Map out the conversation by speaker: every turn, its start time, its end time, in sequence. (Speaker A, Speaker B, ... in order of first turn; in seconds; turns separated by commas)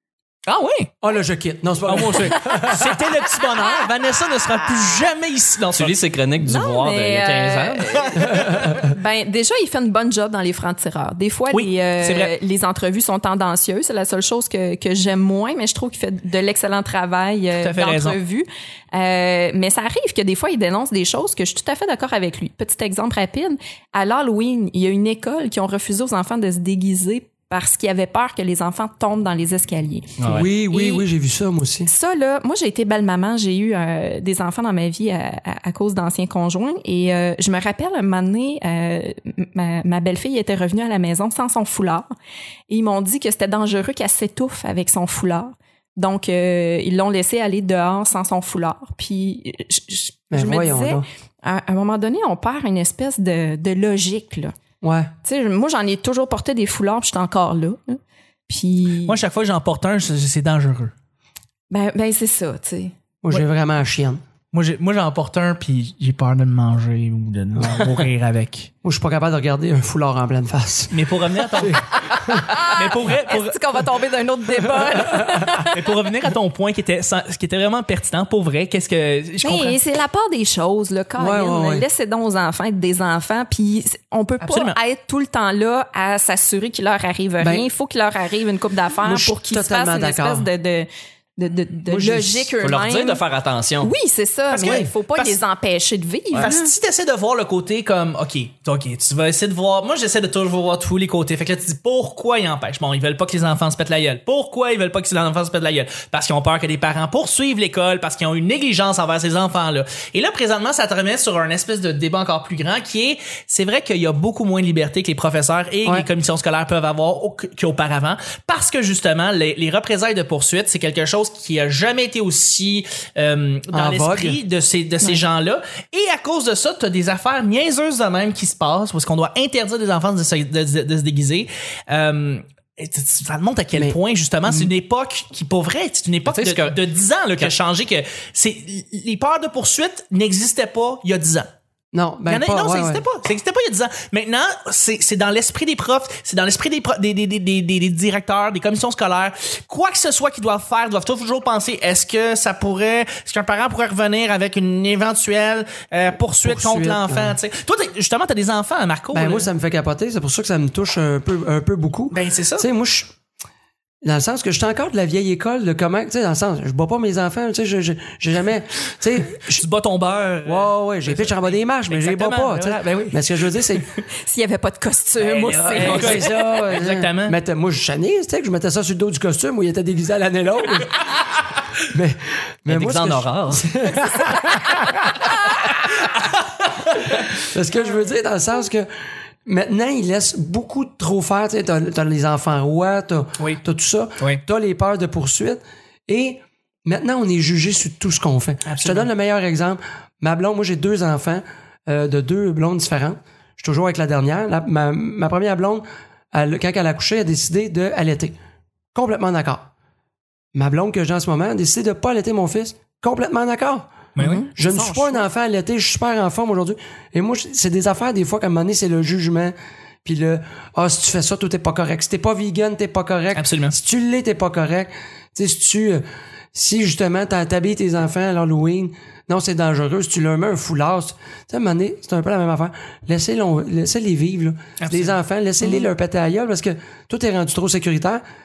Speaker A: 0.5-0.9, Speaker B: 1.0-2.9, Speaker A: 1.9-6.0, Speaker C: 5.7-8.0, Speaker D: 6.4-31.0, Speaker A: 8.1-8.7, Speaker B: 8.3-8.8, Speaker A: 11.5-12.3, Speaker A: 17.5-18.2, Speaker C: 30.2-30.5, Speaker B: 30.2-31.9, Speaker D: 31.9-42.0, Speaker D: 42.7-54.5, Speaker B: 50.3-51.0, Speaker B: 54.8-55.1, Speaker D: 55.2-59.2, Speaker A: 59.0-60.9, Speaker D: 61.7-62.9, Speaker B: 63.2-64.2, Speaker A: 64.5-68.7, Speaker B: 67.6-67.8, Speaker B: 68.8-72.6, Speaker A: 70.9-71.9, Speaker D: 72.2-75.8, Speaker A: 72.6-73.6, Speaker B: 75.1-75.5, Speaker A: 75.6-79.8, Speaker D: 79.4-93.2, Speaker B: 81.2-81.9, Speaker A: 84.4-84.8, Speaker B: 87.4-87.7, Speaker B: 89.0-90.5, Speaker B: 91.9-92.5, Speaker C: 92.6-93.9, Speaker D: 93.8-96.7, Speaker A: 94.5-95.4, Speaker B: 94.6-94.9, Speaker A: 96.4-141.5, Speaker B: 123.7-124.4, Speaker B: 133.7-134.7, Speaker C: 136.2-136.8, Speaker B: 141.9-143.0, Speaker A: 142.3-159.5, Speaker B: 156.4-157.4, Speaker B: 159.1-163.1, Speaker A: 162.1-162.7, Speaker B: 164.0-169.7, Speaker A: 169.4-174.1, Speaker B: 170.4-173.9, Speaker D: 174.2-176.4, Speaker A: 175.2-177.4, Speaker B: 175.4-181.1, Speaker B: 181.9-185.3, Speaker C: 182.7-183.7, Speaker B: 187.3-188.9, Speaker B: 189.4-208.4, Speaker A: 198.7-199.1, Speaker B: 208.9-209.7, Speaker B: 210.5-214.0, Speaker A: 214.2-214.5, Speaker D: 214.2-215.2, Speaker B: 214.5-219.5, Speaker B: 220.0-238.2, Speaker A: 223.3-223.8, Speaker A: 234.8-235.2, Speaker D: 235.6-235.9